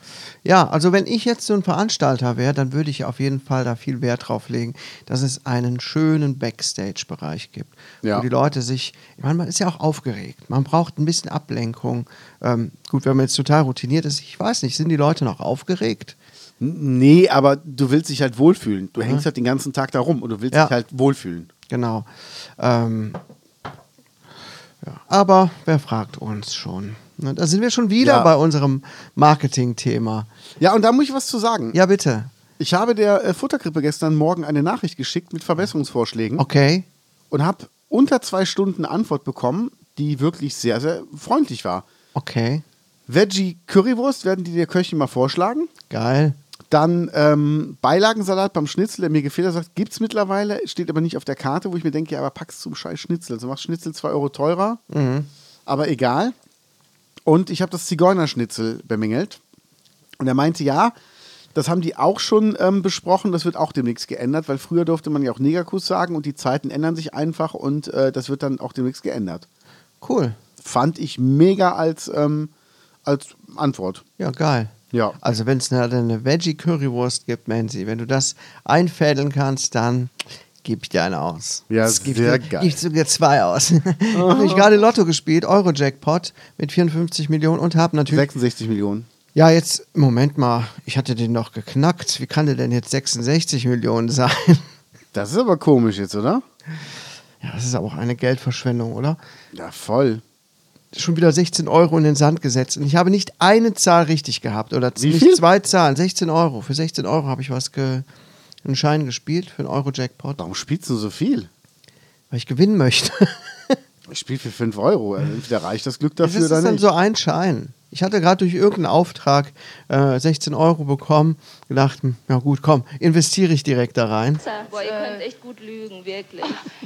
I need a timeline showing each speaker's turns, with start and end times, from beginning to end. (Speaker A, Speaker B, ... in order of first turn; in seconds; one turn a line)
Speaker A: 0.4-16.1
Speaker B: 16.6-21.5
Speaker A: 21.7-23.2
Speaker A: 24.8-30.3
Speaker B: 28.0-28.3
Speaker B: 30.6-31.8
Speaker A: 31.7-32.3
Speaker B: 32.6-36.4
Speaker A: 36.4-36.9
Speaker B: 37.3-41.8
Speaker A: 42.1-42.6
Speaker B: 43.1-45.7
Speaker A: 45.9-46.4
Speaker B: 46.7-54.8
Speaker A: 54.9-55.3
Speaker B: 55.6-56.3
Speaker B: 57.2-59.4
Speaker B: 60.2-61.0
Speaker B: 61.5-69.5
Speaker A: 70.0-70.4
Speaker B: 70.6-72.5
Speaker B: 73.0-74.0
Speaker A: 74.2-88.3
Speaker B: 74.9-75.2
Speaker B: 81.7-82.8
Speaker B: 84.1-84.7
Speaker B: 88.1-89.1
Speaker A: 89.3-94.6
Speaker B: 95.1-96.4
Speaker A: 97.4-99.2
Speaker B: 99.5-100.2
Speaker A: 100.9-108.0
Speaker B: 105.0-105.4
Speaker A: 108.6-110.4
Speaker B: 110.4-111.5
Speaker A: 112.3-113.8
Speaker B: 114.1-116.8
Speaker A: 116.2-124.4
Speaker C: 124.4-126.6